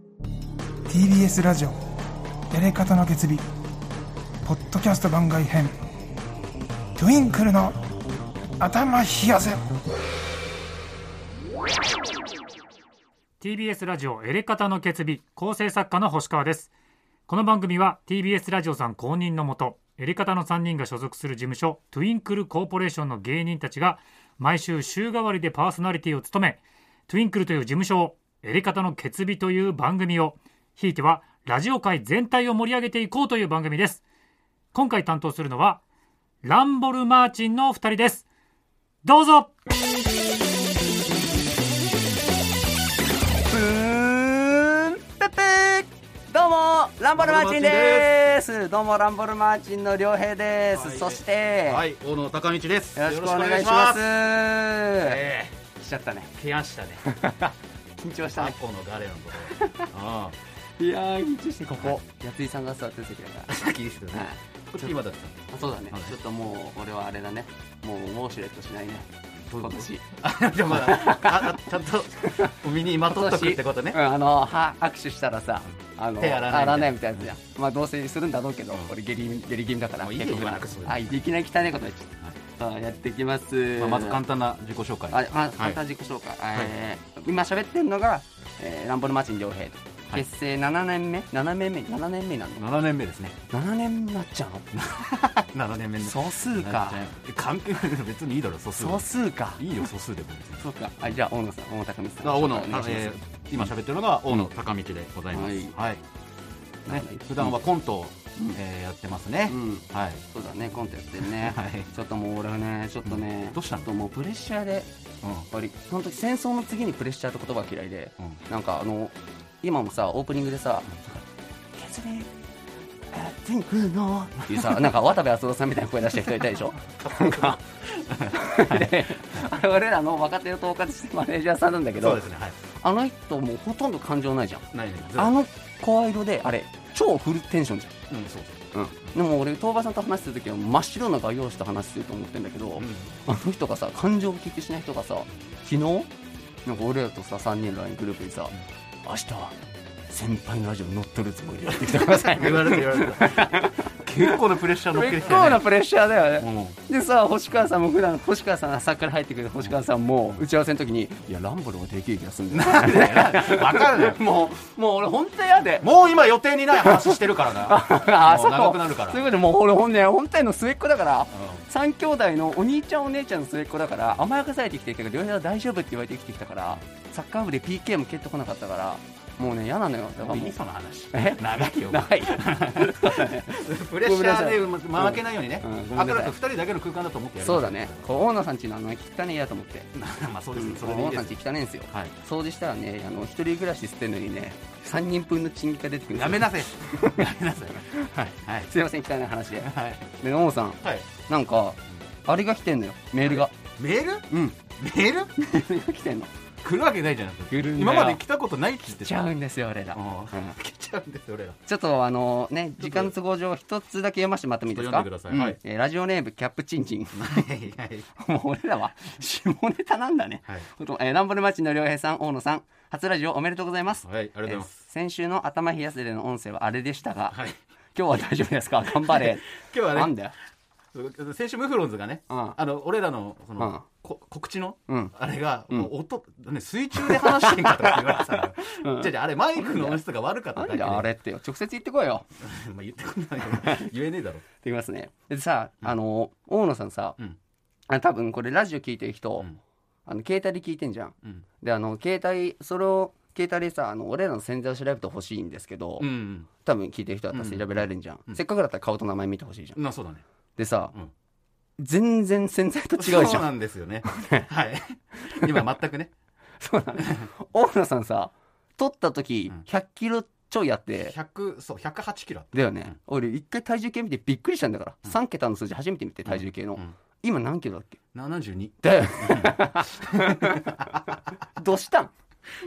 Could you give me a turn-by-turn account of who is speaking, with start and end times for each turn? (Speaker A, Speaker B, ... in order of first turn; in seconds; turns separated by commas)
Speaker A: 0.9-1.8, Speaker A: 2.5-3.4, Speaker A: 4.4-5.8, Speaker A: 7.0-7.8, Speaker A: 8.6-9.6, Speaker B: 13.4-16.7, Speaker B: 17.3-34.0, Speaker B: 34.7-35.8, Speaker B: 36.4-38.2, Speaker B: 39.0-39.5, Speaker C: 43.5-51.8, Speaker D: 47.1-48.2, Speaker D: 50.7-54.1, Speaker C: 53.0-55.2, Speaker D: 55.0-55.6, Speaker C: 55.7-56.3, Speaker D: 56.3-57.0, Speaker C: 57.0-58.5, Speaker D: 58.3-60.4, Speaker C: 59.5-59.9, Speaker C: 60.8-63.5, Speaker D: 63.5-66.2, Speaker C: 64.1-64.9, Speaker C: 65.5-70.0, Speaker D: 69.5-74.0, Speaker C: 70.7-71.6, Speaker C: 72.2-84.2, Speaker D: 76.2-77.3, Speaker D: 80.0-81.2, Speaker D: 83.8-85.8, Speaker C: 85.1-92.6, Speaker D: 92.5-93.4, Speaker C: 93.5-94.7, Speaker D: 94.7-101.1, Speaker C: 96.0-97.0, Speaker C: 98.8-99.8, Speaker C: 100.6-103.2, Speaker D: 102.2-106.0, Speaker C: 105.3-105.8, Speaker C: 106.9-107.6, Speaker D: 106.9-110.2, Speaker C: 109.5-114.9, Speaker D: 111.2-111.9, Speaker D: 113.0-113.9, Speaker D: 115.2-115.5, Speaker C: 115.5-120.9, Speaker D: 120.9-121.2, Speaker C: 121.8-122.3, Speaker C: 123.1-127.6, Speaker D: 124.4-124.9, Speaker D: 126.8-129.2, Speaker C: 128.3-132.2, Speaker D: 132.0-132.6, Speaker C: 132.8-137.9, Speaker D: 134.7-135.3, Speaker D: 138.1-138.6, Speaker C: 138.7-146.1, Speaker D: 142.8-143.2, Speaker C: 146.6-148.5, Speaker C: 149.0-149.6, Speaker C: 150.1-153.9, Speaker D: 151.7-155.7, Speaker C: 154.9-165.9, Speaker D: 156.4-156.8, Speaker D: 162.5-164.3, Speaker D: 165.8-169.2, Speaker C: 166.8-180.5, Speaker D: 171.3-171.6, Speaker D: 180.2-188.2, Speaker C: 181.1-186.3, Speaker C: 187.4-189.9, Speaker D: 189.9-191.4, Speaker C: 190.6-197.2, Speaker D: 191.9-192.2, Speaker D: 196.1-198.7, Speaker C: 198.7-203.6, Speaker D: 199.6-200.1, Speaker D: 200.8-201.1, Speaker D: 203.2-205.5, Speaker C: 204.3-204.6, Speaker C: 205.4-206.3, Speaker D: 206.6-209.2, Speaker C: 207.5-208.2, Speaker C: 209.0-210.6, Speaker D: 209.9-211.6, Speaker C: 211.7-217.5, Speaker D: 212.8-213.1, Speaker D: 214.7-215.6, Speaker D: 217.1-218.1, Speaker C: 218.2-227.4, Speaker D: 224.0-224.8, Speaker D: 227.3-227.6, Speaker C: 227.9-230.3, Speaker D: 229.0-230.2, Speaker D: 230.9-241.1, Speaker C: 232.3-232.6, Speaker C: 233.6-233.8, Speaker C: 234.9-235.1, Speaker C: 237.0-240.0, Speaker C: 240.5-242.2, Speaker D: 242.4-244.4, Speaker C: 243.4-243.9, Speaker C: 244.6-247.2, Speaker C: 247.9-249.5, Speaker C: 250.1-259.8, Speaker D: 256.0-256.5, Speaker D: 257.3-258.4, Speaker D: 259.7-260.2, Speaker C: 260.6-260.9, Speaker C: 261.8-263.5, Speaker D: 263.0-266.1, Speaker C: 264.1-264.5, Speaker C: 266.6-271.1, Speaker D: 267.0-267.3, Speaker D: 271.0-272.9, Speaker C: 272.5-278.0, Speaker D: 276.2-276.9, Speaker D: 278.1-281.1, Speaker C: 278.8-282.1